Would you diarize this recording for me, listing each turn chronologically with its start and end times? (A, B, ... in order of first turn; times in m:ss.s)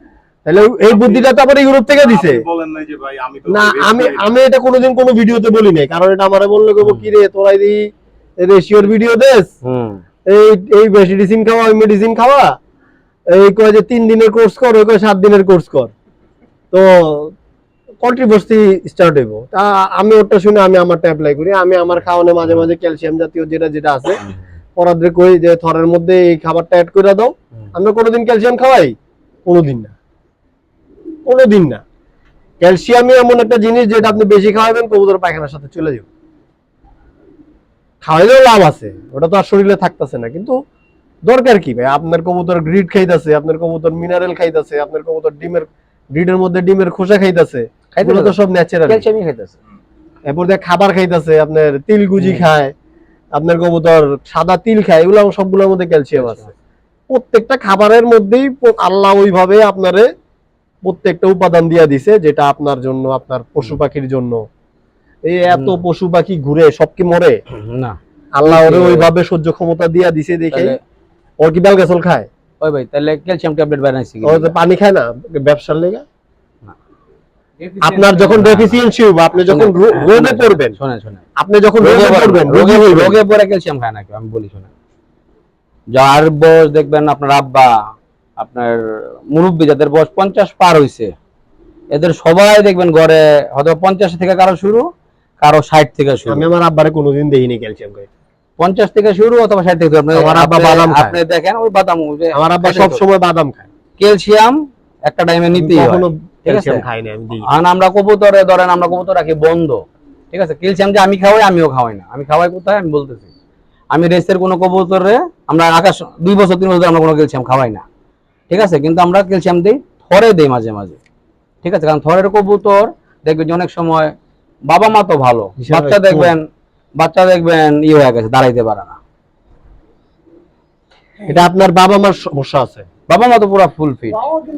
0:00.4-0:02.4 A
0:00.8-0:01.3 B
0:02.0-0:04.3 B
0:03.5-0:07.9 A
0:08.4-0:09.5 A
0:09.6-0:10.0 C
0:10.3-0:12.6 A
0:13.3-0:15.9 A
0:16.7-0:17.3 A
0:18.0-0:24.2 A
0:24.8-0:28.9 A
0:29.4-0:29.9 A
0:31.2-0:31.8 A
0:32.6-0:36.1 A
0:38.0-0:40.6 A
0:41.2-0:49.0 A
0:47.9-0:49.6 C
0:50.2-0:52.7 A
0:53.3-0:56.5 A
0:56.2-0:56.5 C
0:57.1-1:00.1 A
1:00.8-1:04.4 A
1:05.2-1:07.4 A
1:05.5-1:05.8 C
1:07.6-1:09.1 C
1:08.4-1:10.8 A
1:10.5-1:10.8 C
1:11.4-1:12.3 A
1:12.6-1:14.5 C
1:14.2-1:16.0 A
1:17.6-1:18.8 C
1:17.8-1:20.8 A
1:19.4-1:21.2 C
1:21.4-1:23.2 A
1:21.8-1:24.7 C
1:25.9-1:27.7 C
1:28.4-1:31.1 C
1:31.9-1:34.9 C
1:35.4-1:36.5 C
1:36.3-1:38.1 A
1:38.6-1:43.0 C
1:40.1-1:41.2 A
1:42.3-1:43.7 A
1:44.0-1:46.8 C
1:45.5-1:47.5 A
1:47.5-1:53.3 C
1:53.9-1:57.8 C
1:58.5-2:01.0 C
2:01.6-2:04.1 C
2:04.7-2:06.4 C
2:05.6-2:06.3 A
2:07.0-2:09.0 C
2:11.2-2:12.9 A
2:13.1-2:14.2 C